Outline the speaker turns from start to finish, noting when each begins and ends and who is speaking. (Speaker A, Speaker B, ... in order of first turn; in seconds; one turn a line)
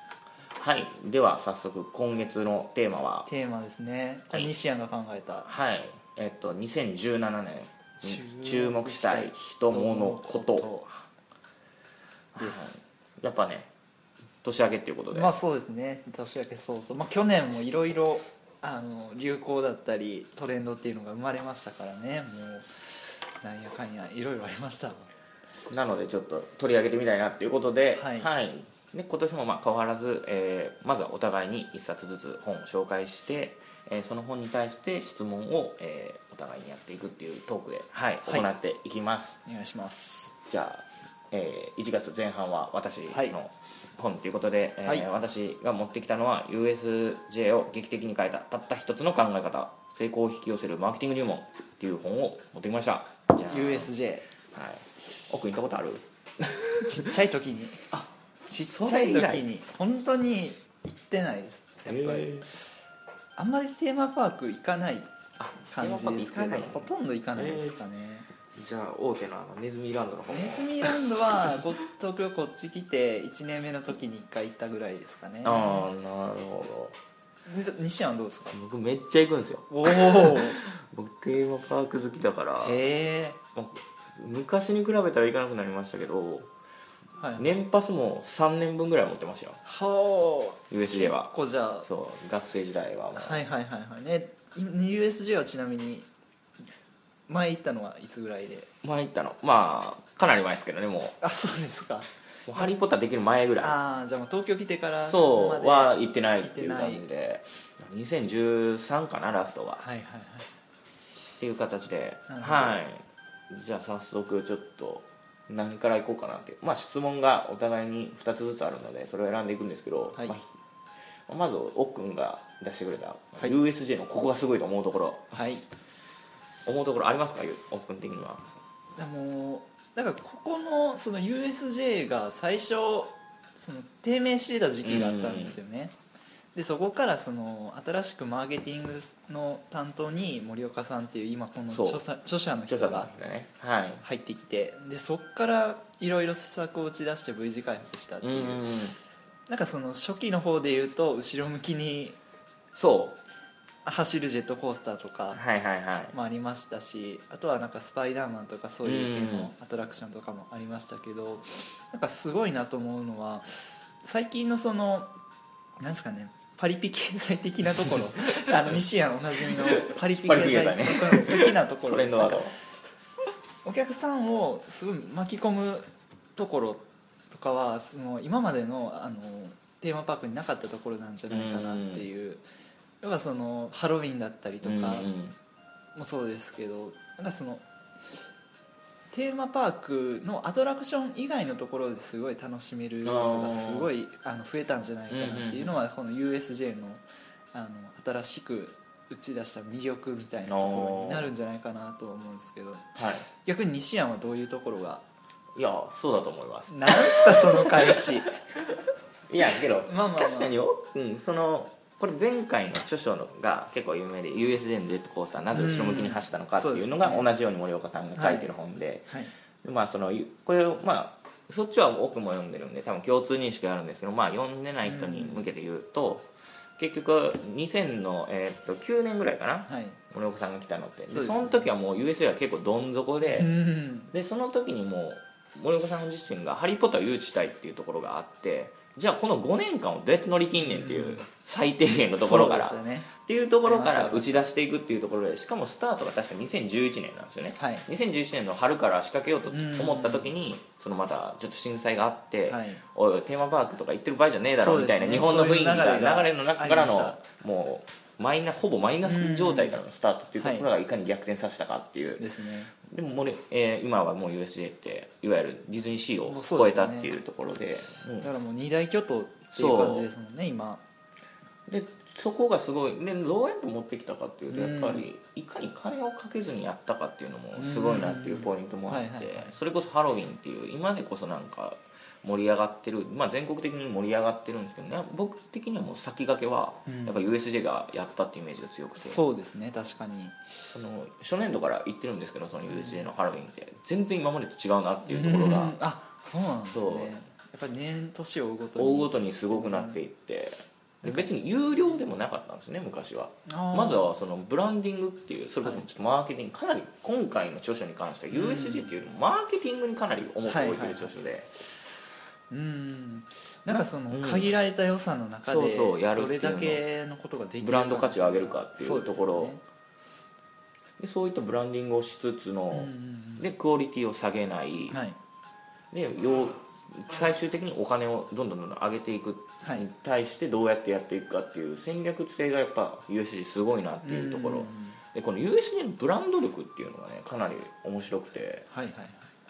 Speaker A: 0.5-3.3
Speaker B: 3.2-5.5
Speaker A: 5.4-10.9
Speaker B: 8.0-10.9
Speaker A: 12.3-13.7
Speaker B: 12.4-12.8
Speaker A: 14.4-15.3
Speaker B: 15.1-25.1
Speaker A: 25.7-39.4
Speaker B: 27.9-28.3
Speaker B: 39.4-40.3
Speaker A: 40.5-53.9
Speaker B: 43.1-43.4
Speaker B: 53.5-54.3
Speaker A: 54.5-57.1
Speaker B: 56.8-62.4
Speaker A: 58.6-59.4
Speaker A: 61.9-62.5
Speaker B: 63.4-65.1
Speaker A: 65.4-67.8
Speaker B: 65.7-68.3
Speaker A: 68.5-71.0
Speaker B: 70.3-75.8
Speaker A: 75.4-77.0
Speaker B: 77.5-78.5
Speaker A: 78.5-82.8
Speaker B: 79.7-80.6
Speaker B: 82.6-83.4
Speaker A: 83.5-86.5
Speaker B: 87.2-87.6
Speaker A: 87.3-89.6
Speaker B: 89.6-91.9
Speaker A: 90.7-91.3
Speaker A: 91.8-93.4
Speaker B: 93.2-96.1
Speaker B: 97.3-98.7
Speaker A: 98.8-101.2
Speaker B: 101.2-102.7
Speaker A: 102.5-103.8
Speaker B: 103.6-107.0
Speaker A: 105.0-109.8
Speaker B: 109.8-110.5
Speaker A: 111.4-120.5
Speaker B: 112.3-112.8
Speaker A: 121.3-125.4
Speaker B: 125.3-125.6
Speaker A: 126.7-128.4
Speaker B: 129.0-135.9
Speaker A: 134.8-135.6
Speaker B: 136.5-143.1
Speaker A: 141.7-142.0
Speaker A: 142.7-144.0
Speaker B: 144.0-148.8
Speaker A: 148.2-148.9
Speaker B: 149.5-152.2
Speaker A: 152.7-153.2
Speaker B: 153.8-155.4
Speaker A: 155.3-156.1
Speaker B: 156.1-165.1
Speaker A: 158.8-159.5
Speaker B: 165.8-172.5
Speaker A: 168.3-168.8
Speaker A: 169.4-172.6
Speaker B: 173.6-182.4
Speaker A: 181.3-182.1
Speaker B: 183.0-185.1
Speaker A: 184.6-185.3
Speaker B: 185.9-187.6
Speaker B: 189.1-205.0
Speaker A: 193.0-193.9
Speaker A: 195.1-195.7
Speaker A: 200.4-201.3
Speaker A: 202.9-203.3
Speaker A: 205.5-208.6
Speaker B: 206.7-208.3
Speaker A: 209.3-219.1
Speaker B: 209.8-210.5
Speaker B: 215.5-217.3
Speaker B: 218.2-218.5
Speaker B: 219.1-219.3
Speaker A: 219.6-233.5
Speaker B: 224.8-225.5
Speaker B: 229.7-230.0
Speaker B: 231.1-231.7
Speaker B: 233.3-234.1
Speaker A: 234.1-262.2
Speaker B: 240.6-241.2
Speaker B: 242.2-243.1
Speaker B: 243.6-244.3
Speaker B: 247.6-247.8
Speaker B: 249.5-250.3
Speaker B: 252.5-252.8
Speaker B: 254.5-257.2
Speaker B: 259.0-259.8
Speaker B: 260.4-260.7
Speaker B: 262.2-262.7
Speaker A: 262.8-268.3
Speaker B: 266.2-267.1
Speaker B: 268.2-270.8
Speaker A: 269.5-270.1
Speaker A: 271.7-289.2
Speaker B: 274.5-275.1
Speaker B: 277.6-279.6
Speaker B: 286.9-287.3
Speaker B: 289.0-290.5
Speaker A: 290.7-295.8
Speaker B: 292.7-293.0
Speaker B: 295.1-300.0
Speaker A: 296.7-297.1
Speaker A: 298.8-311.5
Speaker B: 301.0-301.3
Speaker B: 303.4-304.1
Speaker B: 305.6-305.9
Speaker B: 308.3-308.9
Speaker B: 310.4-311.1
Speaker B: 312.5-319.6
Speaker A: 313.6-314.5
Speaker A: 315.5-316.8
Speaker A: 317.6-319.5
Speaker A: 321.0-325.0
Speaker B: 322.7-323.5
Speaker B: 324.9-325.2
Speaker A: 325.9-338.7
Speaker B: 329.6-329.9
Speaker B: 334.0-335.0
Speaker B: 338.7-339.3